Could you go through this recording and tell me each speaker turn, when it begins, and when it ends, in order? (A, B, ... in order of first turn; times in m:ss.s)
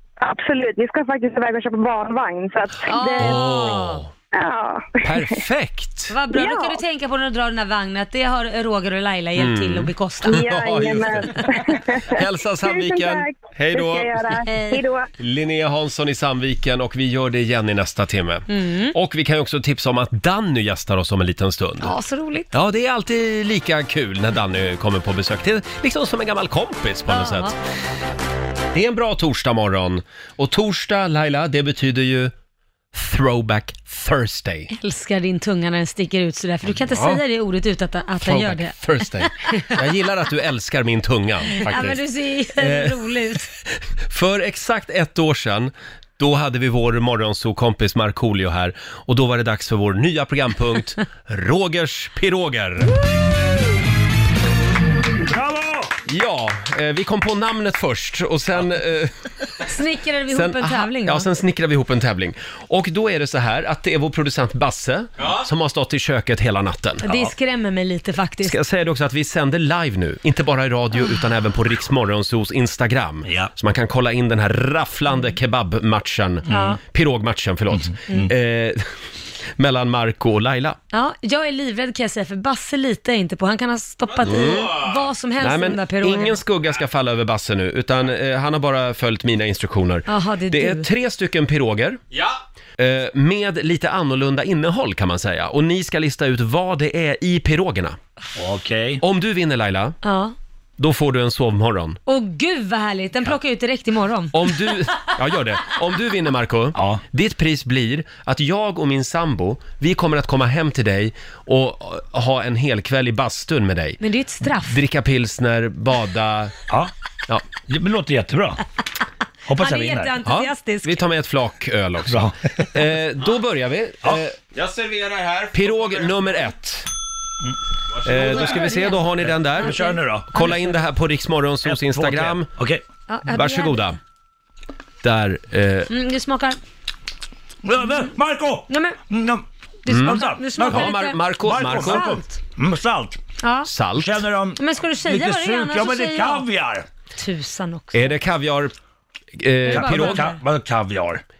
0:00.2-0:03.4 A
0:02.9-0:04.0 B
0:03.2-0:04.1 C
0:04.3-0:05.4 A
0:05.0-0:06.1 C
0:06.1-0:10.5 B
0:06.3-0:06.8 A
0:09.4-0:11.5 C
0:10.2-0:15.1 A
0:12.1-0:14.4 C
0:14.5-0:14.9 B
0:15.2-0:21.9 C
0:18.5-0:19.0 B
0:21.8-0:22.5 B
0:22.5-0:27.6 C
0:27.1-0:27.5 B
0:28.7-0:32.3 C
0:32.9-0:34.7 C
0:34.7-0:39.8 B
0:36.7-0:37.2 C
0:38.2-0:42.0 C
0:41.5-0:43.5 B
0:42.6-0:43.0 C
0:44.1-0:52.9 C
0:55.3-0:55.9 D
0:56.1-0:59.1 C
0:59.6-1:01.3 B
1:00.3-1:07.1 C
1:05.2-1:05.4 E
1:07.0-1:08.6 B
1:08.4-1:19.0 C
1:13.2-1:13.5 D
1:16.5-1:16.8 D
1:16.5-1:16.8 B
1:17.7-1:18.3 D
1:19.6-1:20.8 C
1:20.9-1:26.4 B
1:24.1-1:25.1 E
1:24.2-1:24.8 C
1:25.4-1:32.0 C
1:30.1-1:30.9 B
1:32.1-1:32.4 E
1:32.8-1:38.0 C
1:38.4-1:39.0 D
1:39.0-1:40.0 C
1:40.0-1:40.4 B
1:40.8-1:42.0 C
1:42.1-1:44.7 B
1:44.3-1:54.0 C
1:46.8-1:47.0 D
1:54.0-1:54.8 B
1:54.6-1:56.6 C
1:57.7-1:58.6 D
1:59.5-2:00.1 D
1:59.6-2:01.0 B
2:00.2-2:04.4 C
2:02.1-2:02.7 D
2:04.5-2:06.5 E
2:05.5-2:06.9 C
2:07.9-2:08.7 E
2:08.1-2:09.8 C
2:08.3-2:10.6 B
2:09.2-2:10.4 D
2:10.3-2:12.5 C
2:11.6-2:12.8 D
2:13.1-2:13.9 B
2:13.3-2:14.0 C
2:15.0-2:15.9 C
2:15.9-2:16.6 B
2:17.6-2:23.2 D
2:18.7-2:19.0 B
2:19.8-2:22.4 B
2:19.9-2:22.1 C
2:23.4-2:23.7 B
2:23.6-2:24.2 C
2:24.0-2:26.9 D
2:24.6-2:26.5 B
2:27.2-2:28.1 B
2:27.9-2:28.7 C
2:29.4-2:30.3 C
2:29.7-2:30.4 B
2:29.7-2:31.2 D